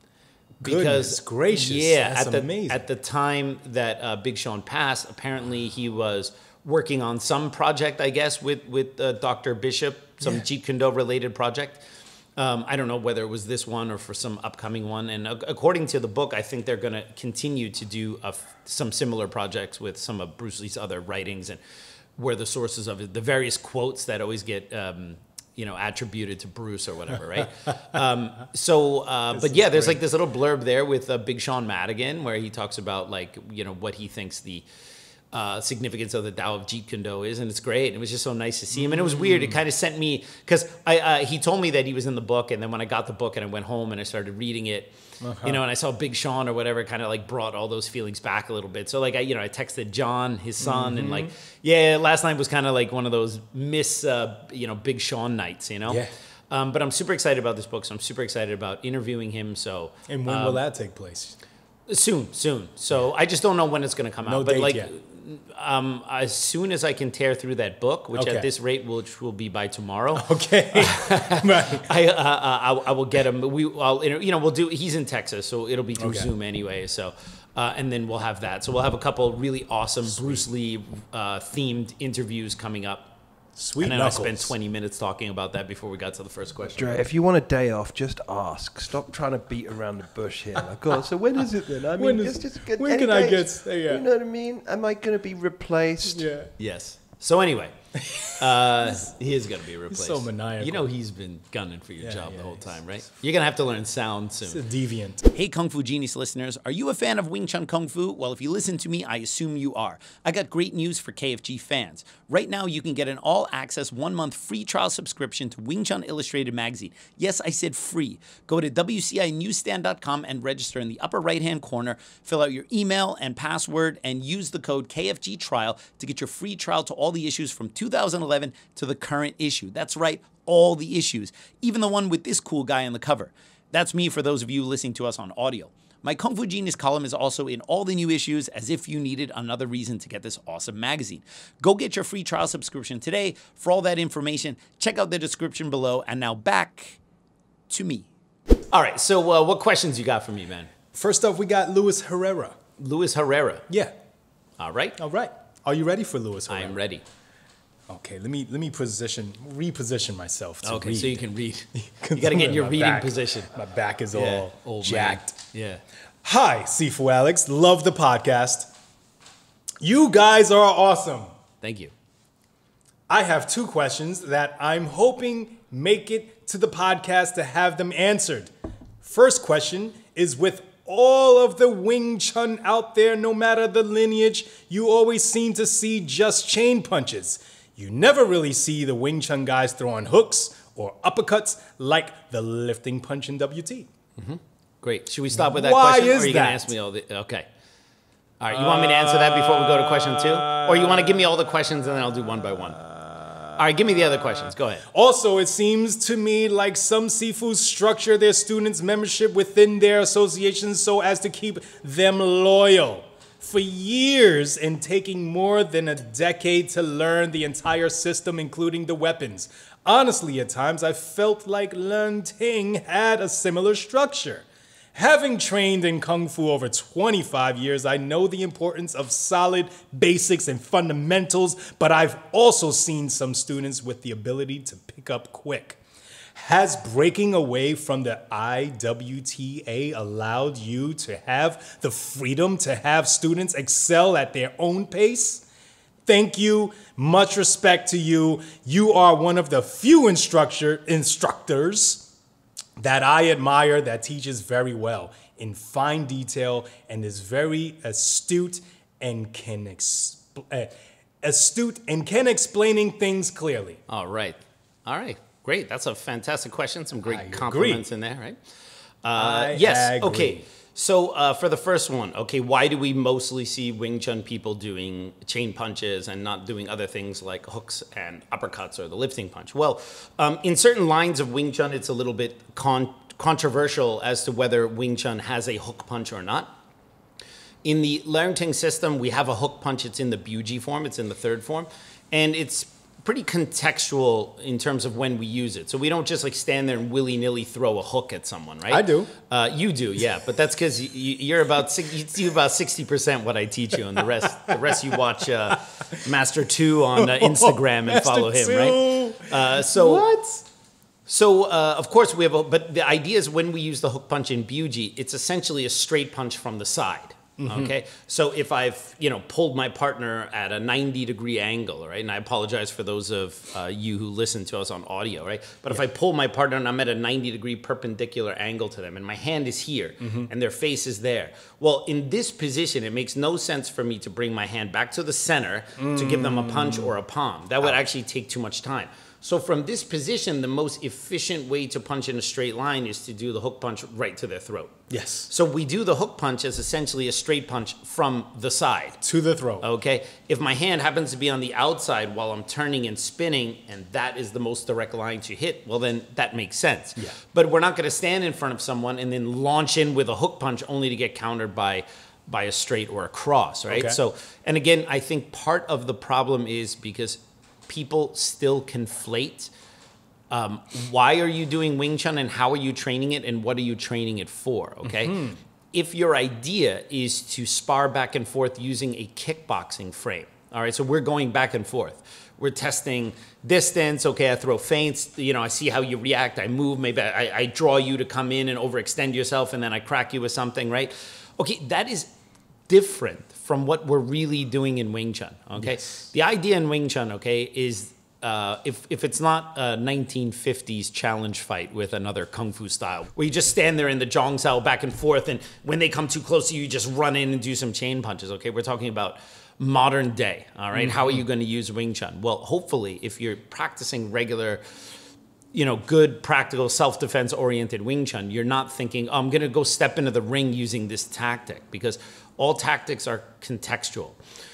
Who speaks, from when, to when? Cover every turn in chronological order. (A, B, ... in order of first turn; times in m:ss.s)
0:00.6-0:02.8 A
0:00.6-0:11.8 B
0:12.4-0:21.6 B
0:22.2-0:34.6 B
0:29.4-0:30.0 A
0:35.3-1:00.6 B
0:38.8-0:39.6 A
0:45.2-0:45.6 A
0:50.6-0:51.3 A
0:55.9-0:56.1 A
1:00.1-1:01.4 A
1:01.9-1:23.1 B
1:04.2-1:04.9 A
1:08.2-1:08.5 A
1:10.2-1:11.9 A
1:16.0-1:16.3 A
1:23.6-1:24.5 A
1:23.8-1:27.0 B
1:26.7-1:36.3 C
1:31.7-1:34.0 A
1:36.1-1:36.5 A
1:36.6-1:44.6 B
1:38.0-1:38.4 A
1:39.9-1:40.9 A
1:42.0-1:42.7 A
1:44.5-1:45.3 A
1:45.3-2:27.0 B
2:27.7-2:28.1 B
2:28.7-2:30.7 B
2:30.9-2:32.6 A
2:32.8-2:33.7 B
2:33.7-2:33.9 A
2:34.6-2:35.0 B
2:35.0-2:36.8 A
2:36.5-2:37.0 B
2:37.9-2:45.4 A
2:40.6-2:43.5 B
2:44.1-2:45.8 B
2:46.2-2:48.7 A
2:49.8-2:51.3 A
2:51.6-2:51.9 B
2:53.1-3:13.9 A
3:14.2-3:17.5 B
3:15.4-3:16.7 A
3:18.4-3:22.8 B
3:18.5-3:21.2 A
3:23.0-3:23.4 A
3:23.6-3:24.8 B
3:24.9-3:55.8 A
3:56.4-4:05.4 A
4:06.0-4:12.1 A
4:12.8-4:23.8 A
4:23.9-4:28.4 B
4:27.1-4:27.8 A
4:29.0-4:46.5 B
4:29.2-4:30.4 A
4:47.6-5:10.1 B
4:58.7-4:59.1 A
5:07.0-5:10.4 A
5:11.1-5:44.8 B
5:17.4-5:17.7 A
5:35.8-5:36.9 A
5:44.9-5:45.3 A
5:45.3-5:49.0 B
5:49.0-5:49.7 A
5:49.6-6:09.5 B
6:03.7-6:04.0 A
6:10.3-6:15.2 B
6:14.9-6:15.4 A
6:15.7-6:32.1 B
6:32.7-6:54.6 B
6:50.7-6:51.2 A
6:55.5-7:04.2 B